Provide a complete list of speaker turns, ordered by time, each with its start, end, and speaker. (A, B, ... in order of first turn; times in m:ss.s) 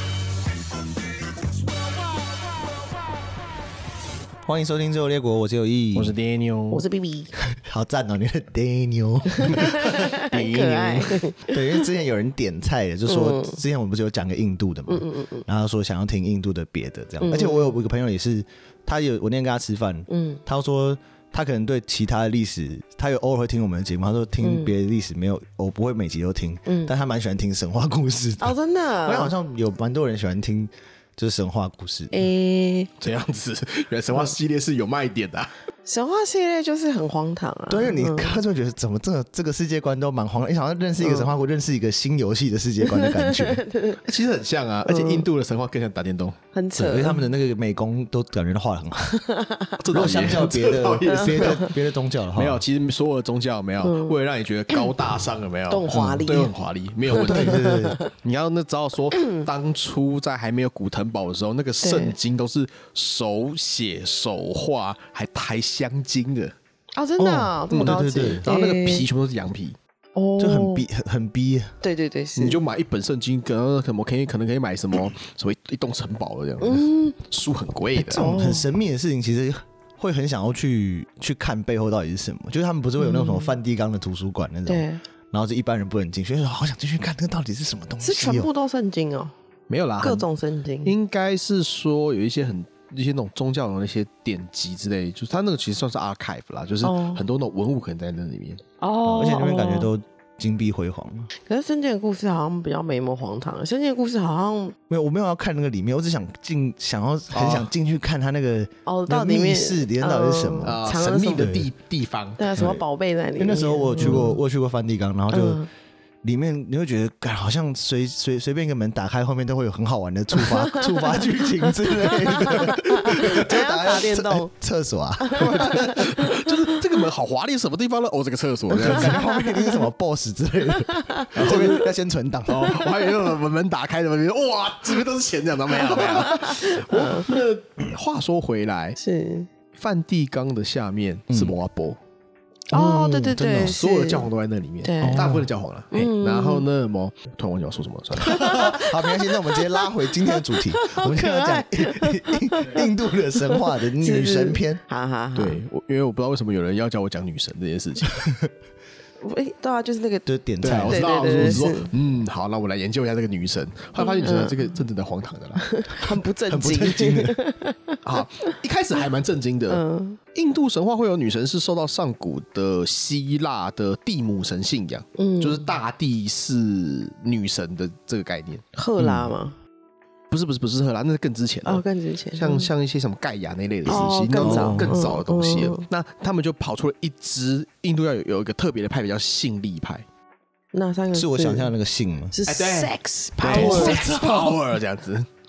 0:04.4-0:06.2 A
0:05.9-0:06.8 B
0:06.7-0:07.3 C
0:07.5-0:09.8 A
0:09.3-0:11.8 C
0:10.1-0:11.3 B
0:11.5-0:32.2 A
0:13.1-0:13.6 C
0:14.9-0:15.4 C
0:17.2-0:17.7 C
0:20.1-0:20.4 C
0:24.4-0:24.7 C
0:26.6-0:26.9 C
0:28.4-0:29.3 C
0:32.1-0:32.9 C
0:33.0-0:35.5 B
0:35.8-0:38.4 C
0:37.7-0:43.6 A
0:41.0-0:41.3 C
0:42.8-0:44.0 C
0:44.0-0:46.4 B
0:44.8-0:45.2 C
0:46.5-0:47.2 C
0:46.8-0:49.2 A
0:49.0-0:49.8 C
0:49.8-0:51.7 B
0:49.9-0:52.6 A
0:51.0-0:51.7 C
0:52.3-1:06.5 B
0:53.8-0:54.2 C
0:55.7-0:56.5 C
0:55.9-0:56.2 A
0:57.1-0:58.0 A
0:57.2-0:58.1 C
0:59.1-0:59.5 C
1:01.8-1:02.2 C
1:07.0-1:09.0 C
1:07.2-1:08.4 A
1:07.7-1:09.8 B
1:10.2-1:10.8 C
1:10.4-1:11.8 A
1:11.8-1:12.6 C
1:12.4-1:18.2 B
1:16.6-1:17.2 C
1:18.0-1:28.5 A
1:18.1-1:18.7 C
1:23.0-1:23.6 C
1:24.6-1:25.0 C
1:28.0-1:29.3 C
1:29.7-1:30.2 B
1:30.0-1:30.9 C
1:30.8-1:38.6 B
1:36.8-1:37.2 C
1:38.8-1:39.9 C
1:39.0-1:41.3 A
1:41.4-1:44.8 C
1:44.9-1:51.7 A
1:47.3-1:47.7 B
1:48.8-1:51.5 C
1:50.6-1:52.4 B
1:52.4-1:54.3 C
1:52.6-1:52.8 A
1:53.4-1:55.6 A
1:54.0-1:54.3 B
1:55.3-1:55.7 C
1:56.2-2:06.0 A
2:00.3-2:04.5 C
2:05.2-2:06.6 C
2:05.4-2:09.2 B
2:08.7-2:12.8 A
2:08.8-2:09.8 C
2:10.8-2:11.8 C
2:11.4-2:11.8 B
2:12.5-2:19.0 B
2:15.9-2:17.3 C
2:19.0-2:19.5 C
2:19.7-2:22.0 B
2:21.3-2:21.5 A
2:22.7-2:24.3 C
2:22.7-2:23.8 A
2:23.6-2:28.7 B
2:24.8-2:25.3 C
2:25.0-2:25.5 A
2:25.9-2:26.6 C
2:28.2-2:34.8 A
2:28.2-2:35.6 C
2:35.3-2:38.2 B
2:38.2-2:38.5 A
2:39.2-2:40.2 C
2:40.2-2:41.7 A
2:40.6-2:45.7 B
2:40.8-2:41.9 C
2:44.0-2:44.7 C
2:45.6-2:48.5 C
2:46.5-2:47.4 A
2:48.0-2:49.8 B
2:49.7-2:50.2 C
2:50.3-2:58.6 B
2:55.2-2:55.7 C
2:58.7-2:59.6 C
2:59.0-2:59.3 A
3:00.3-3:01.8 B
3:01.6-3:02.7 C
3:02.3-3:10.0 B
3:03.8-3:05.8 C
3:03.9-3:05.0 A
3:10.7-3:11.7 C
3:11.1-3:12.3 A
3:12.3-3:14.1 C
3:12.5-3:15.3 B
3:13.4-3:14.6 A